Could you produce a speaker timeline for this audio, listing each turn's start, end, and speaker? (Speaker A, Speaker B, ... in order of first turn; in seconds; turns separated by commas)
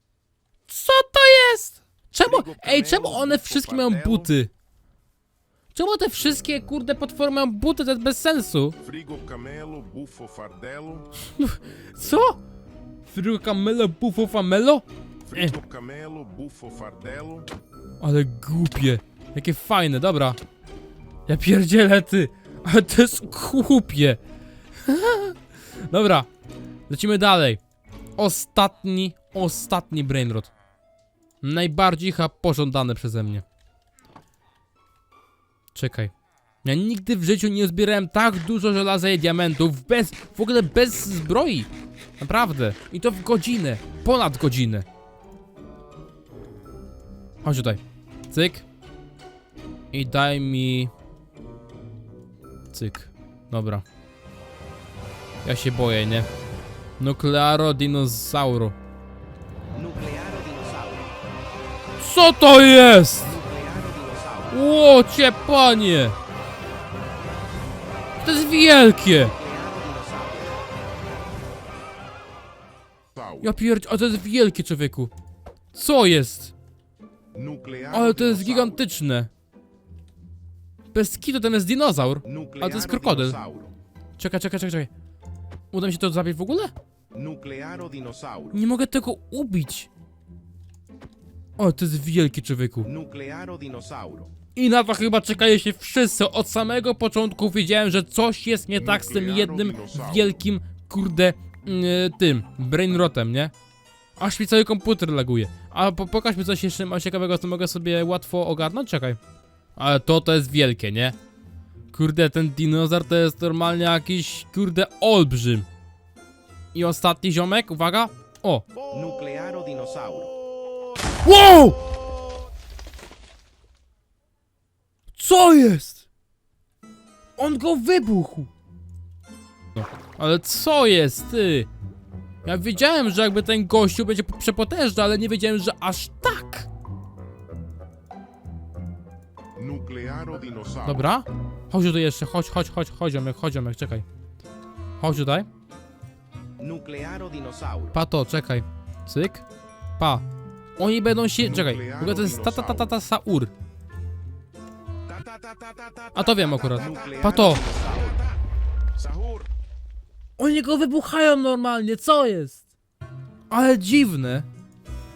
Speaker A: 0.7-4.5, Speaker B: 2.2-4.3, Speaker A: 5.7-8.7, Speaker B: 8.8-11.1, Speaker A: 11.3-12.4, Speaker A: 13.1-15.5, Speaker B: 15.3-17.5, Speaker A: 18.0-20.4, Speaker A: 21.3-24.2, Speaker A: 24.8-25.4, Speaker A: 25.9-26.3, Speaker A: 26.9-27.6, Speaker A: 28.2-30.5, Speaker A: 31.4-33.4, Speaker A: 35.7-36.1, Speaker A: 36.6-44.9, Speaker A: 47.4-48.6, Speaker A: 49.9-50.9, Speaker A: 52.7-53.8, Speaker A: 55.4-56.3, Speaker A: 57.0-58.7, Speaker C: 59.7-61.1, Speaker A: 62.0-63.4, Speaker C: 63.2-64.6, Speaker A: 64.5-66.1, Speaker A: 68.2-69.3, Speaker C: 69.2-70.6, Speaker B: 73.1-73.5, Speaker A: 73.4-75.1, Speaker A: 75.7-76.5, Speaker B: 77.3-78.8, Speaker A: 77.9-79.3, Speaker A: 80.9-83.4, Speaker C: 82.2-83.7, Speaker A: 84.2-84.9, Speaker A: 85.7-86.7, Speaker C: 87.1-88.6, Speaker A: 88.5-89.9, Speaker A: 91.6-92.9, Speaker C: 92.8-94.3, Speaker A: 94.5-103.5, Speaker B: 98.8-100.3, Speaker A: 104.2-109.2, Speaker A: 109.8-111.2, Speaker A: 111.9-115.7, Speaker A: 116.7-118.6, Speaker C: 118.9-120.3, Speaker A: 121.2-121.8, Speaker A: 125.1-126.0, Speaker A: 127.4-128.5, Speaker A: 129.8-131.7, Speaker A: 132.4-136.7, Speaker B: 139.6-141.1, Speaker A: 140.8-144.1, Speaker A: 145.0-145.5, Speaker C: 146.6-148.0, Speaker A: 147.9-149.4, Speaker A: 150.0-150.2, Speaker A: 150.8-153.5, Speaker B: 151.4-152.9, Speaker B: 155.1-158.4, Speaker A: 156.1-157.6, Speaker C: 156.9-158.2, Speaker B: 158.9-159.5, Speaker A: 160.4-162.6, Speaker A: 163.5-164.5